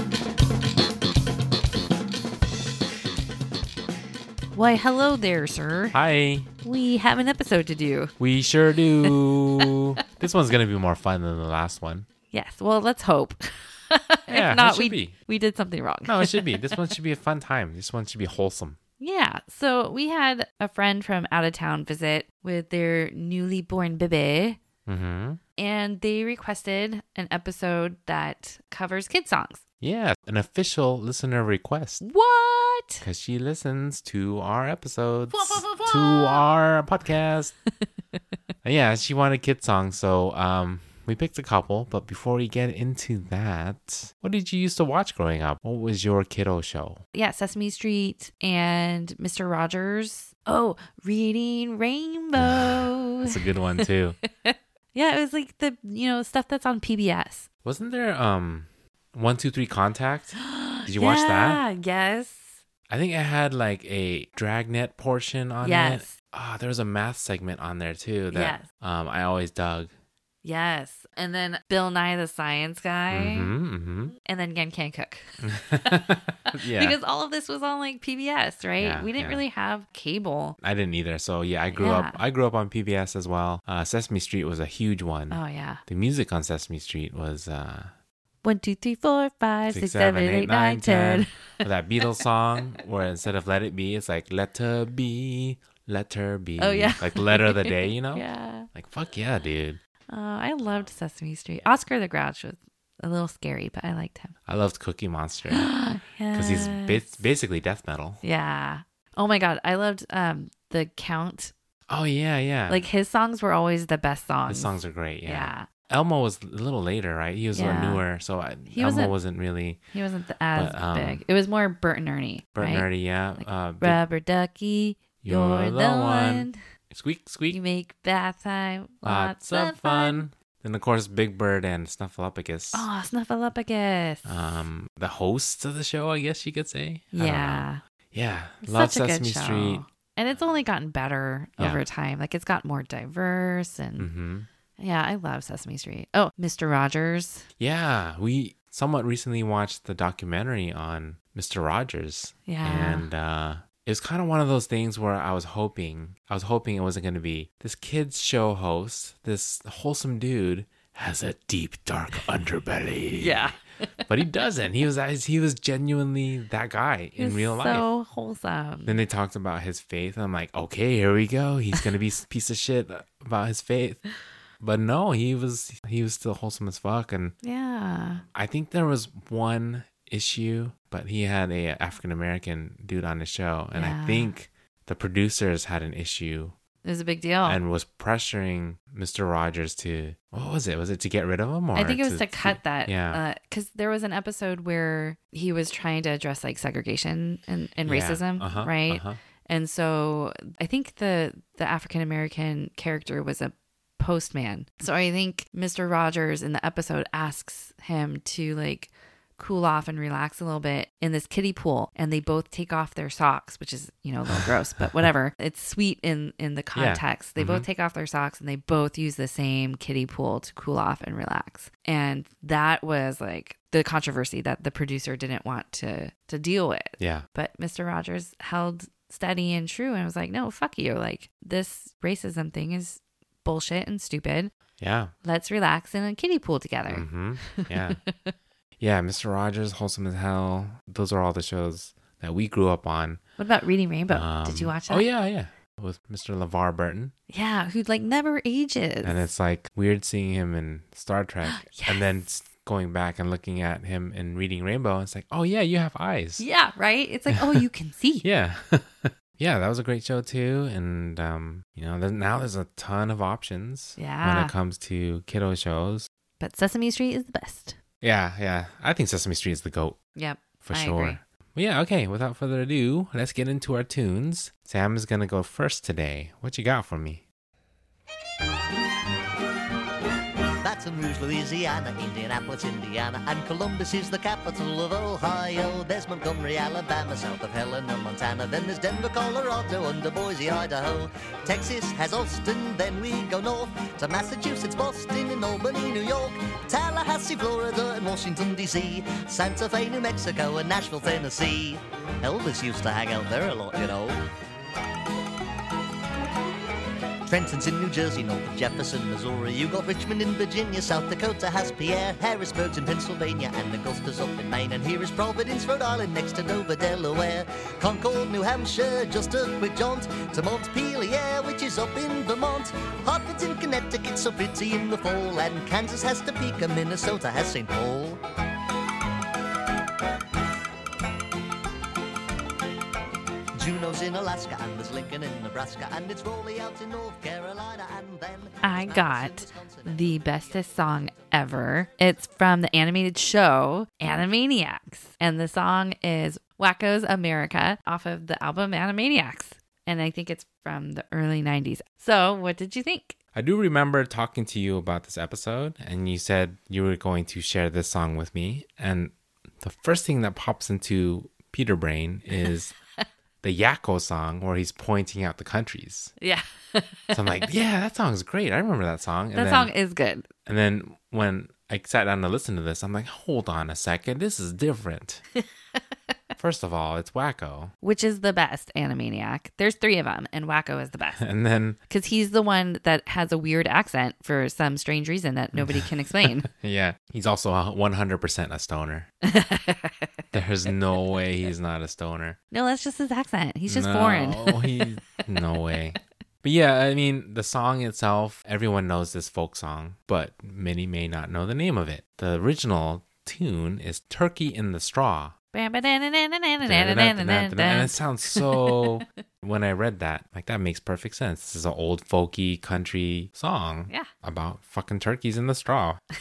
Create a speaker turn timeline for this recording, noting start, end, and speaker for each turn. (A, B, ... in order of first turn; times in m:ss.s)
0:04.5-0:06.0 A
0:05.9-0:06.5 B
0:06.6-0:08.1 A
0:08.2-0:12.1 B
0:12.3-0:16.9 A
0:14.3-0:15.1 B
0:16.0-0:18.8 B
0:19.0-0:24.6 A
0:24.8-0:25.4 B
0:25.6-0:29.6 A
0:29.8-0:32.0 B
0:32.0-0:33.0 A
0:33.0-0:37.5 B
0:35.3-0:36.4 A
0:38.6-0:47.0 B
0:47.1-0:57.4 A
0:52.4-0:54.2 B
0:57.6-1:01.6 B
1:00.4-1:02.6 A
1:02.9-1:09.9 B
1:05.6-1:06.1 A
1:08.3-1:08.6 A
1:10.4-1:13.5 A
1:13.1-1:14.1 B
1:14.2-1:20.6 A
1:15.4-1:17.0 B
1:18.8-1:19.4 B
1:20.6-1:27.9 B
1:21.7-1:22.2 A
1:25.3-1:25.8 A
1:28.4-1:31.6 A
1:29.7-1:39.8 B
1:36.6-1:38.7 A
1:40.1-1:44.3 A
1:44.4-1:45.7 B
1:45.5-1:47.0 A
1:46.3-1:48.2 B
1:48.2-1:51.5 A
1:51.9-1:52.8 B
1:52.7-1:55.7 A
1:54.5-1:59.8 B
1:57.5-1:58.0 A
1:58.7-1:59.1 A
1:59.9-2:02.8 A
2:00.5-2:01.2 B
2:02.5-2:04.0 B
2:03.4-2:06.6 A
2:05.2-2:07.6 B
2:07.5-2:10.2 A
2:09.0-2:12.9 B
2:12.7-2:14.4 A
2:14.2-2:19.8 B
2:17.1-2:17.8 A
2:18.6-2:24.1 A
2:24.0-2:24.5 B
2:24.8-2:27.4 A
2:27.6-2:43.4 B
2:32.4-2:33.1 A
2:43.2-2:43.6 A
2:44.1-2:47.8 B
2:47.2-2:49.0 A
2:48.8-2:54.0 B
2:54.6-2:57.3 B
2:57.4-2:58.2 A
2:58.2-3:06.5 B
3:03.7-3:04.3 A
3:06.8-3:07.6 A
3:07.4-3:13.2 B
3:11.7-3:54.5 A
3:17.8-3:19.2 B
3:34.3-3:34.8 B
3:36.7-3:37.6 B
3:47.0-3:47.2 B
3:54.8-3:55.1 B
3:55.2-3:58.3 A
3:56.9-3:58.0 B
3:58.8-4:03.2 B
4:03.4-4:05.0 A
4:04.1-4:07.1 B
4:07.3-4:09.2 A
4:09.0-4:16.4 B
4:11.4-4:12.0 A
4:16.4-4:18.2 A
4:17.3-4:17.6 B
4:18.2-4:26.1 B
4:24.0-4:24.5 A
4:26.4-4:27.8 A
4:28.0-4:30.0 B
4:30.1-4:31.2 A
4:30.6-4:37.2 B
4:40.6-5:04.2 C
5:07.2-5:28.2 C
5:33.6-5:41.2 C
5:38.6-5:53.2 A
5:53.3-6:02.7 B
6:03.4-6:06.1 B
6:06.2-6:07.2 A
6:07.1-6:09.7 B
6:09.3-6:10.3 A
6:10.4-6:15.2 B
6:16.4-6:17.7 B
6:17.8-6:21.2 A
6:21.2-6:21.8 B
6:21.9-6:26.5 A
6:25.5-6:29.1 B
6:29.2-6:30.1 A
6:30.3-6:32.4 B
6:32.5-6:34.9 A
6:33.7-6:45.3 B
6:45.5-6:49.0 A
6:46.6-6:56.0 B